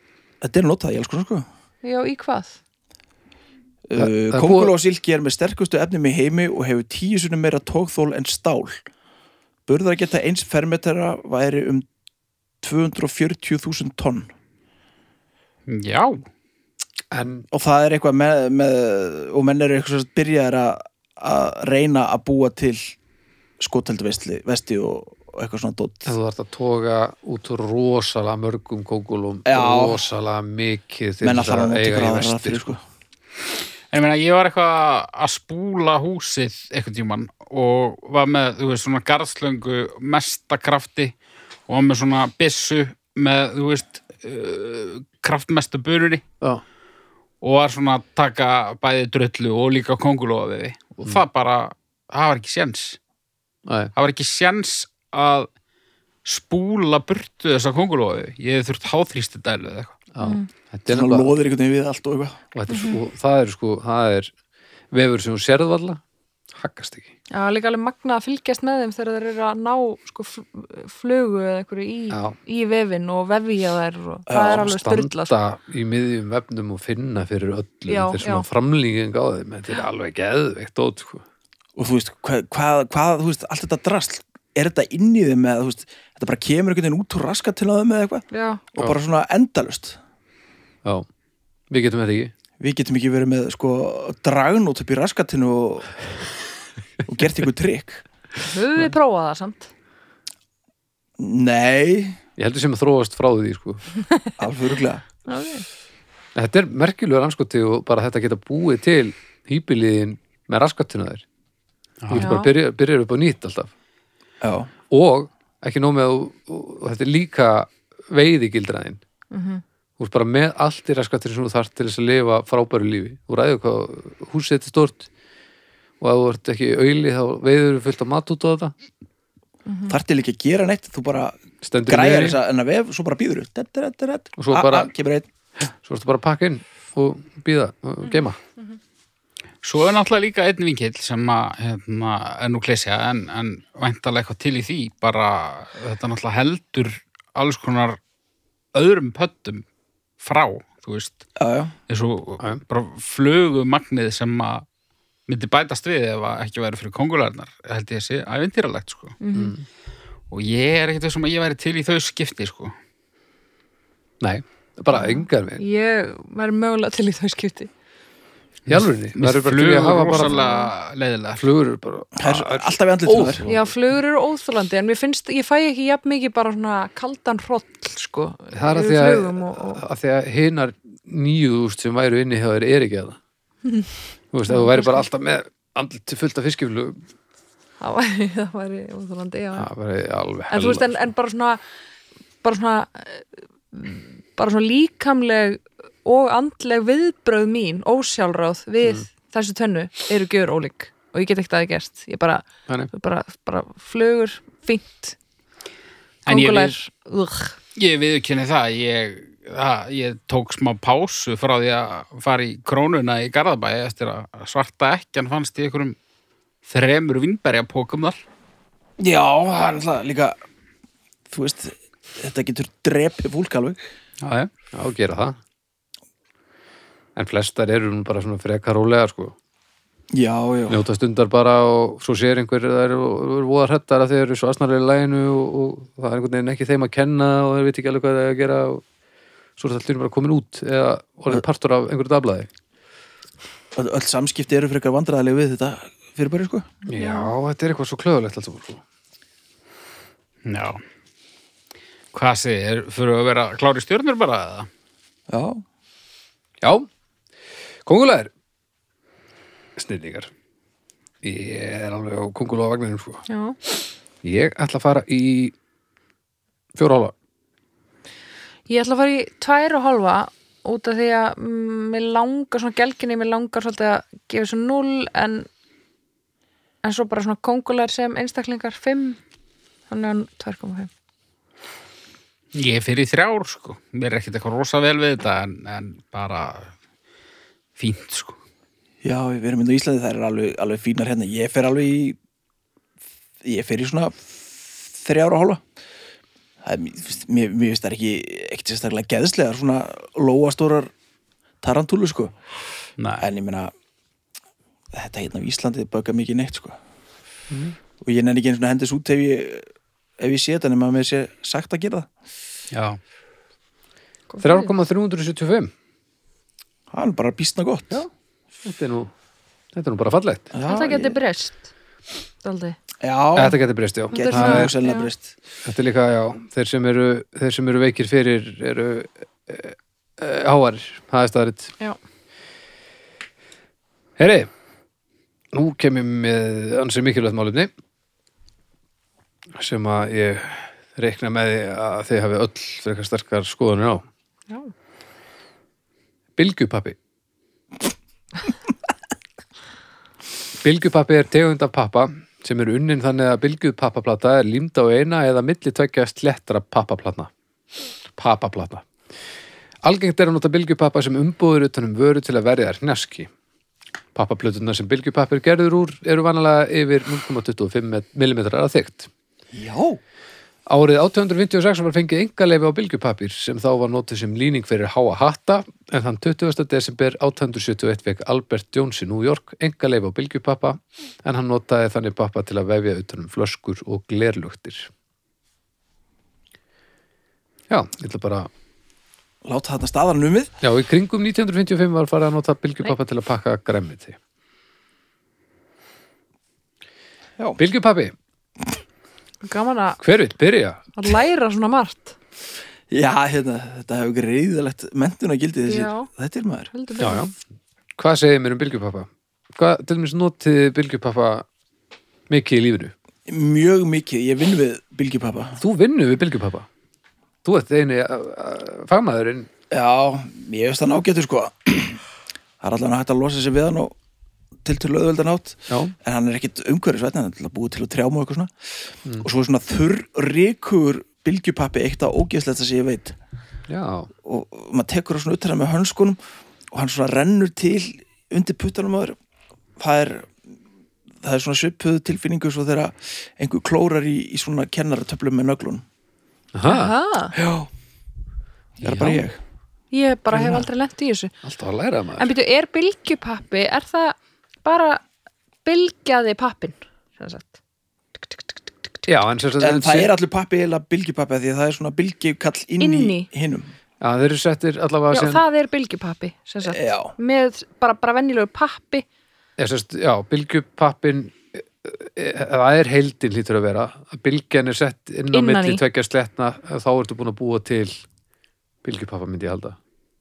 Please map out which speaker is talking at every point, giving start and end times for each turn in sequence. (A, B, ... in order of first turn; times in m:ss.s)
0:00.4-0:01.4 A
0:01.8-0:02.6 B
0:03.9-0:08.8 A
0:04.0-0:04.7 C
0:09.7-0:11.8 A
0:12.6-0:14.3 A
0:15.7-0:16.2 D
0:17.1-0:17.5 C
0:17.5-0:22.9 A
0:23.6-0:26.1 A
0:26.0-0:32.8 C
0:29.4-0:30.0 A
0:31.2-0:32.8 A
0:33.9-0:41.1 D
0:41.7-0:46.2 D
0:47.4-0:53.0 D
0:53.6-0:53.9 C
0:54.0-0:55.5 D
0:56.2-1:00.0 D
1:00.1-1:01.3 C
1:00.2-1:00.5 B
1:00.9-1:02.4 A
1:02.5-1:04.3 C
1:02.7-1:03.0 B
1:04.9-1:06.0 C
1:06.5-1:07.1 C
1:07.3-1:15.3 B
1:12.1-1:12.4 C
1:14.3-1:14.6 A
1:14.6-1:21.2 C
1:17.9-1:18.4 B
1:21.8-1:30.0 A
1:28.3-1:28.6 B
1:31.7-1:32.3 C
1:32.6-1:35.9 A
1:37.0-1:38.0 A
1:38.4-1:39.7 B
1:41.2-1:42.2 A
1:42.4-1:43.8 C
1:44.4-1:45.2 A
1:45.3-1:45.6 B
1:46.3-1:51.2 C
1:52.0-1:52.3 D
1:52.1-1:53.7 C
1:52.1-1:52.5 B
1:54.4-1:54.7 A
1:54.9-1:59.0 C
1:59.3-1:59.6 B
2:00.0-2:05.1 C
2:06.0-2:08.7 C
2:09.6-2:09.9 B
2:09.9-2:15.3 A
2:11.6-2:12.4 C
2:14.4-2:14.9 C
2:15.8-2:18.4 C
2:18.0-2:18.8 B
2:19.6-2:28.0 D
2:28.7-2:29.6 D
2:30.2-2:31.2 D
2:31.4-2:31.7 A
2:31.9-2:34.6 D
2:35.3-2:39.2 D
2:39.2-2:39.6 B
2:39.3-2:39.6 C
2:40.3-2:42.7 D
2:44.2-2:45.6 C
2:44.9-2:47.7 B
2:48.7-2:51.5 D
2:48.7-2:50.4 C
2:50.1-2:50.7 B
2:51.4-2:53.7 C
2:52.2-2:53.4 A
2:53.4-2:59.8 B
2:58.5-3:03.2 C
3:03.6-3:03.9 B
3:04.3-3:07.0 C
3:04.5-3:05.0 B
3:07.8-3:09.7 B
3:09.6-3:11.0 C
3:10.5-3:11.6 B
3:12.4-3:25.2 B
3:26.2-3:26.8 D
3:26.2-3:27.6 B
3:27.8-3:36.0 D
3:36.6-3:38.2 D
3:39.0-3:40.4 A
3:41.3-3:43.8 A
3:44.2-3:44.5 D
3:44.7-3:45.4 C
3:47.2-3:49.4 C
3:50.1-3:50.8 A
3:50.7-3:58.8 C
3:59.6-4:02.5 C
4:03.7-4:06.7 A
4:06.9-4:08.8 C
4:06.9-4:07.3 B
4:10.4-4:10.8 D
4:12.1-4:14.7 D
4:15.3-4:15.6 A
4:16.6-4:16.9 C
4:17.8-4:18.3 C
4:19.8-4:20.3 C
4:21.2-4:23.2 C
4:23.3-4:23.6 B
4:24.2-4:25.5 C
4:26.7-4:27.1 C
4:28.7-4:35.5 B
4:36.8-4:39.2 B
4:39.9-4:40.9 B
4:42.5-4:46.7 D
4:47.8-4:48.4 D
4:49.0-4:52.2 A
4:53.4-4:55.6 A
4:56.6-5:00.9 A
5:01.6-5:02.3 A
5:03.0-5:03.2 D
5:03.2-5:03.7 A
5:04.9-5:06.8 A
5:07.5-5:07.8 C
5:08.0-5:09.6 A
5:10.2-5:12.1 A
5:12.7-5:13.0 D
5:14.3-5:14.7 B
5:14.4-5:15.7 C
5:16.9-5:18.0 A
5:18.6-5:19.1 C
5:19.7-5:20.5 C
5:20.5-5:21.2 A
5:20.7-5:21.7 B
5:22.4-5:22.8 B
5:23.0-5:23.6 A
5:23.3-5:24.7 C
5:24.1-5:25.1 B
5:24.1-5:25.3 A
5:25.6-5:31.7 C
5:34.2-5:34.5 C
5:35.5-5:37.7 C
5:39.5-5:44.0 C
5:46.4-5:47.0 C
5:50.6-5:57.3 C
5:58.2-5:58.8 C
5:59.8-6:03.3 C
6:04.1-6:09.1 C
6:09.5-6:10.0 A
6:10.7-6:24.9 C
6:27.7-6:28.5 C
6:29.4-6:30.5 A
6:30.6-6:34.2 C
6:37.6-6:38.1 C
6:39.4-6:40.0 B
6:40.0-6:40.9 C
6:41.0-6:42.2 B
6:42.9-6:46.7 A
6:45.7-6:46.1 B
6:46.7-6:47.3 B
6:47.0-6:47.3 C
6:48.0-6:51.4 C
6:52.3-6:52.9 C
6:53.3-6:55.6 A
6:55.6-6:56.7 C
6:57.4-6:59.5 C
6:59.7-7:02.0 A
7:02.6-7:03.9 A
7:04.6-7:08.5 A
7:05.7-7:05.9 C
7:09.2-7:13.2 A
7:13.7-7:14.1 C
7:14.2-7:16.2 A
7:16.7-7:19.2 A
7:19.8-7:20.4 A
7:21.2-7:25.8 A
7:26.5-7:26.9 C
7:26.6-7:27.3 B
7:27.3-7:27.7 A
7:28.8-7:29.2 C
7:28.8-7:29.4 A
7:29.9-7:31.3 B
7:31.4-7:32.3 C
7:32.2-7:35.0 B
7:35.6-7:37.6 B
7:38.2-7:39.0 B
7:39.1-7:40.1 C
7:39.6-7:43.7 A
7:42.8-7:43.3 B
7:44.0-7:45.4 C
7:45.1-7:49.0 B
7:46.6-7:47.1 A
7:49.6-7:58.0 C
7:55.3-7:55.8 B
7:58.8-7:59.8 C